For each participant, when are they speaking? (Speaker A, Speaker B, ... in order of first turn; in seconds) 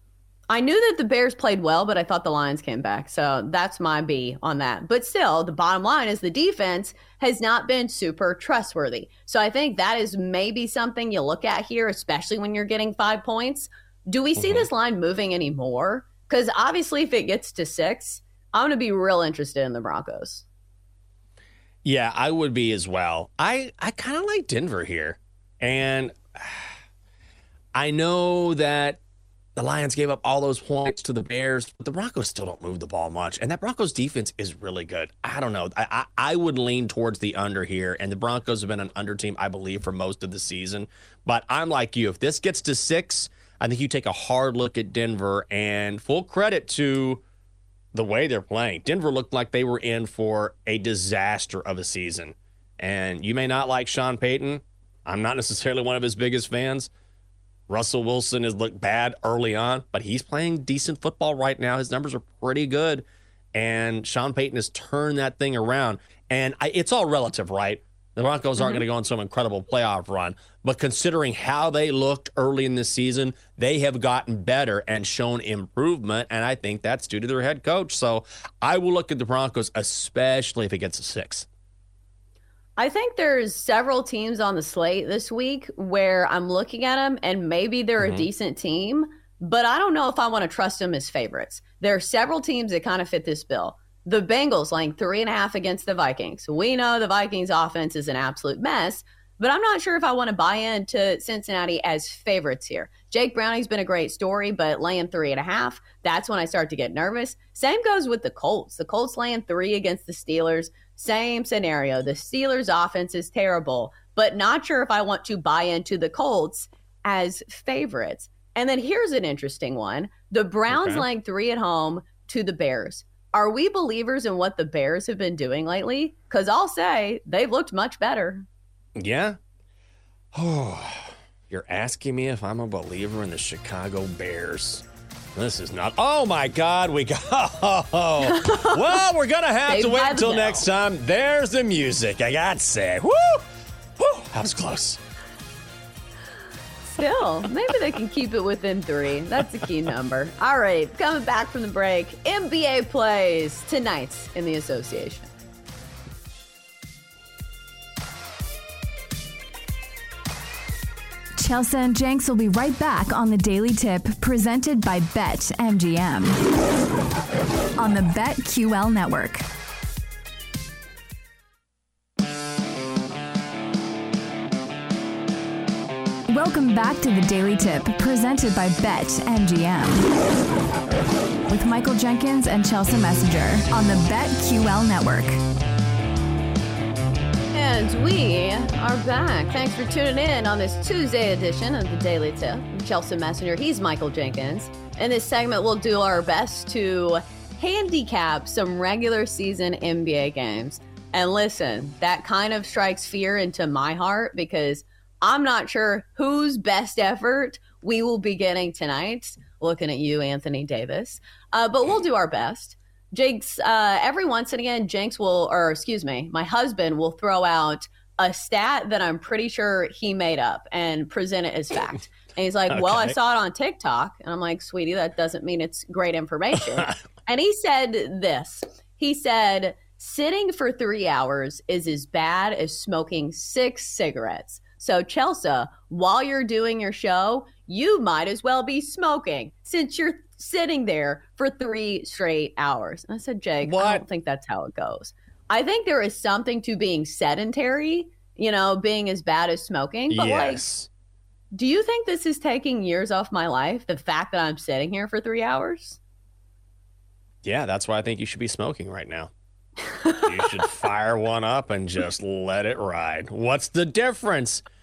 Speaker A: 0.5-20.4, 82.8-128.5, 138.3-138.9, 139.7-140.6, 146.9-155.3, 187.5-250.6, 251.5-256.0
Speaker B: 14.4-14.7, 21.8-26.7, 27.7-29.0, 29.6-47.2, 47.9-56.9, 57.7-81.5, 88.0-88.3, 120.7-121.0, 129.0-129.4, 130.3-143.5, 144.0-145.0, 222.7-223.2, 243.6-244.0, 250.1-250.9, 257.4-259.3, 260.1-264.6
Speaker C: 161.4-166.4, 167.8-169.4, 176.3-180.1, 181.5-185.4